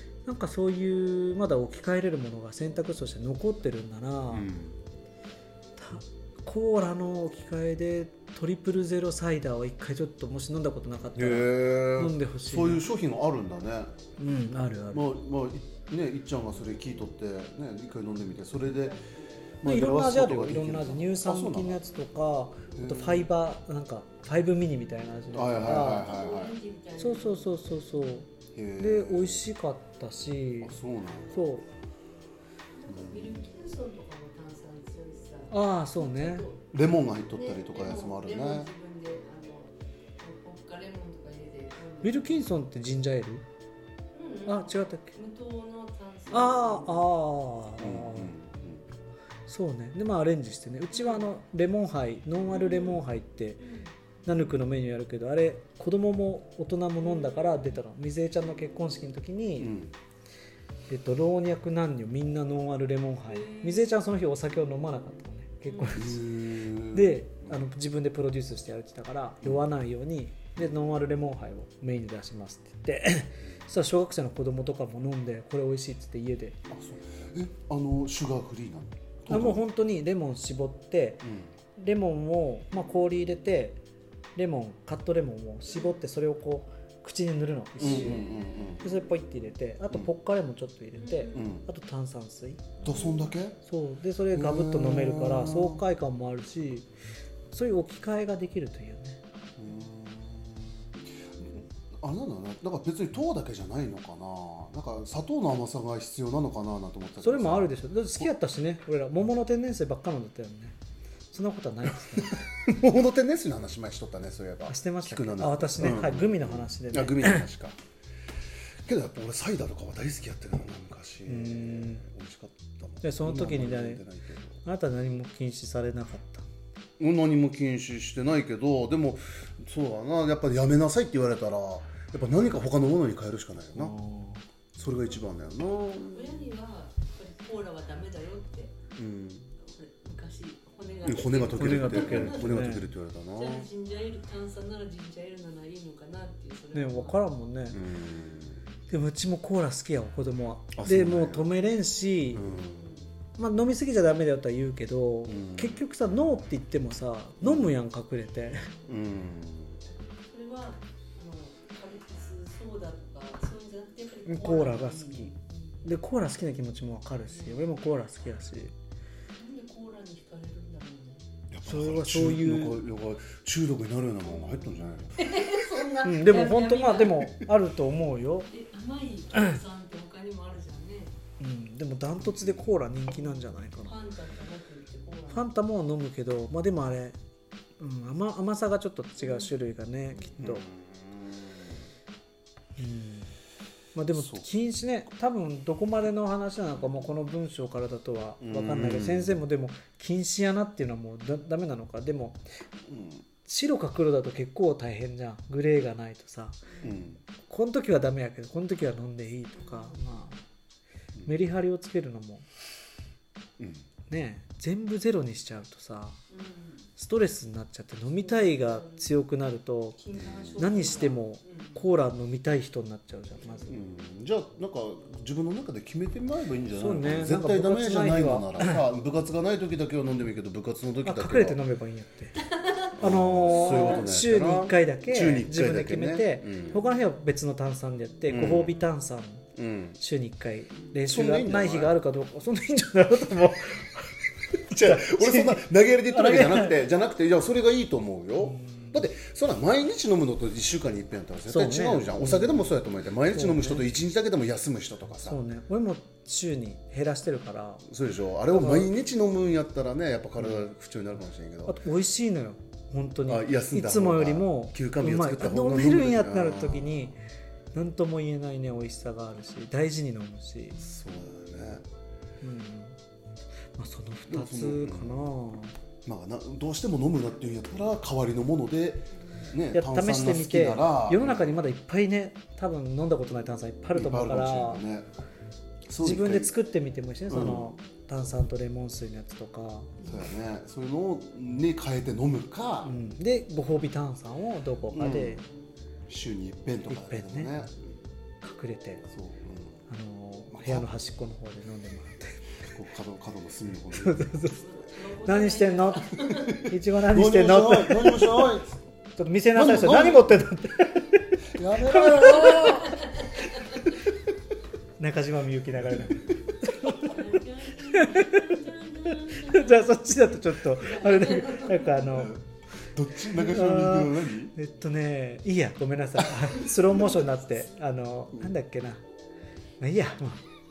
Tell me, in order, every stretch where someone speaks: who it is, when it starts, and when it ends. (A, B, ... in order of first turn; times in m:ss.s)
0:00.2-0:04.5 A
0:04.3-0:04.8 B
0:05.8-0:12.8 A
0:11.2-0:13.9 B
0:14.2-0:15.1 A
0:14.9-0:19.0 B
0:18.8-0:19.2 C
0:19.6-0:21.8 B
0:19.6-0:26.1 A
0:22.7-0:23.3 B
0:25.3-0:26.5 B
0:25.8-0:27.5 C
0:27.0-0:30.8 A
0:28.5-0:29.4 B
0:30.6-0:31.4 B
0:31.3-0:31.6 A
0:32.8-0:36.7 C
0:32.9-0:33.4 B
0:35.5-0:36.4 A
0:36.7-0:38.7 B
0:37.3-0:42.4 C
0:42.0-0:43.4 A
0:44.1-0:47.0 C
0:44.5-0:45.1 A
0:46.3-0:48.3 A
0:47.8-0:48.8 B
0:49.5-0:53.6 A
0:50.9-0:51.3 C
0:52.5-0:53.0 C
0:53.6-0:53.9 C
0:54.2-0:59.8 A
0:57.0-0:57.8 C
0:59.6-0:59.9 B
1:00.9-1:16.6 A
1:03.3-1:03.9 C
1:05.7-1:06.0 C
1:05.9-1:07.6 B
1:16.7-1:19.6 B
1:19.3-1:23.8 A
1:21.2-1:21.5 B
1:24.4-1:28.2 A
1:25.7-1:26.0 C
1:27.8-1:28.7 C
1:27.8-1:28.8 B
1:28.8-1:32.8 A
1:31.0-1:31.5 C
1:31.3-1:31.6 B
1:32.8-1:33.4 C
1:32.8-1:33.6 B
1:33.6-1:36.9 A
1:34.3-1:35.8 B
1:37.5-1:39.2 A
1:39.6-1:48.3 B
1:47.2-1:50.8 A
1:51.3-1:52.4 A
1:52.5-1:57.8 B
1:54.7-1:57.4 A
1:58.8-2:04.6 B
2:01.3-2:02.0 A
2:03.0-2:04.0 A
2:04.6-2:06.5 A
2:07.0-2:14.0 B
2:13.7-2:14.4 A
2:14.7-2:16.5 B
2:16.1-2:18.7 C
2:18.9-2:19.5 B
2:19.6-2:27.2 C
2:21.0-2:23.7 B
2:21.4-2:22.8 A
2:26.7-2:27.8 A
2:27.7-2:28.6 B
2:28.9-2:32.4 A
2:30.7-2:31.5 B
2:32.3-2:32.9 B
2:32.4-2:33.1 C
2:33.4-2:38.6 A
2:35.2-2:35.8 B
2:37.4-2:37.8 B
2:38.7-2:38.9 C
2:38.9-2:39.8 B
2:40.0-2:45.8 C
2:44.2-2:45.3 A
2:45.8-2:48.7 A
2:47.2-2:47.7 C
2:49.3-2:51.2 C
2:51.5-2:55.2 B
2:51.6-2:52.8 A
2:54.2-2:57.3 C
2:56.0-2:58.5 A
2:58.4-3:01.1 C
3:01.4-3:03.9 A
3:02.2-3:02.7 B
3:03.8-3:05.5 C
3:05.3-3:07.2 A
3:07.8-3:10.6 A
3:09.2-3:09.5 C
3:10.4-3:11.8 B
3:12.8-3:13.3 A
3:13.9-3:22.4 A
3:14.1-3:14.5 B
3:18.4-3:19.4 B
3:22.9-3:23.2 B
3:23.4-3:26.6 A
3:26.7-3:27.0 C
3:26.8-3:27.2 B
3:27.5-3:30.3 A
3:29.5-3:30.4 C
3:31.2-3:32.4 A
3:33.6-3:33.8 B
3:34.1-3:36.2 A
3:36.3-3:36.9 C
3:37.0-3:40.0 A
3:38.2-3:39.1 C
3:40.0-3:41.8 C
3:40.2-3:40.5 B
3:40.6-3:43.7 A
3:43.4-3:43.8 C
3:43.7-3:51.6 B
3:46.7-3:48.8 A
3:51.0-3:52.4 A
3:52.4-3:52.9 C
3:53.0-3:56.8 B
3:53.0-3:59.4 A
3:53.4-3:54.1 C
3:58.3-3:58.7 B
3:59.5-4:00.0 B
4:00.0-4:04.1 A
4:00.9-4:01.9 B
4:04.7-4:06.8 A
4:04.7-4:15.4 B
4:08.4-4:09.0 A
4:11.5-4:12.7 A
4:13.3-4:13.9 A
4:15.2-4:17.8 A
4:17.8-4:21.8 B
4:18.5-4:18.9 A
4:21.6-4:27.2 A
4:23.3-4:27.1 B
4:27.7-4:30.8 A
4:30.8-4:31.8 B
4:32.4-4:33.0 A
4:33.8-4:35.7 A
4:34.3-4:35.3 B
4:36.0-4:41.6 B
4:39.7-4:44.8 A
4:43.9-4:45.0 B
4:45.9-4:46.5 B
4:46.0-4:49.9 A
4:47.3-4:47.7 B
4:50.0-4:52.9 B
4:52.8-4:55.4 A
4:54.9-4:55.4 B
4:55.4-4:55.7 C
4:56.1-4:58.0 B
4:56.9-4:57.5 A
4:58.4-4:59.0 A
4:59.1-4:59.8 B
4:59.9-5:02.4 A
5:00.5-5:00.9 B
5:02.6-5:04.3 B
5:03.9-5:04.6 A
5:04.4-5:06.6 C
5:05.2-5:08.5 A
5:07.1-5:08.8 B
5:09.2-5:12.9 A
5:09.5-5:10.3 B
5:11.5-5:13.0 B
5:12.5-5:13.0 C
5:15.0-5:17.2 A
5:15.9-5:16.2 B
5:16.7-5:22.2 C
5:17.9-5:22.3 A
5:22.1-5:24.5 B
5:23.3-5:29.0 A
5:26.2-5:27.0 B
5:29.8-5:30.4 A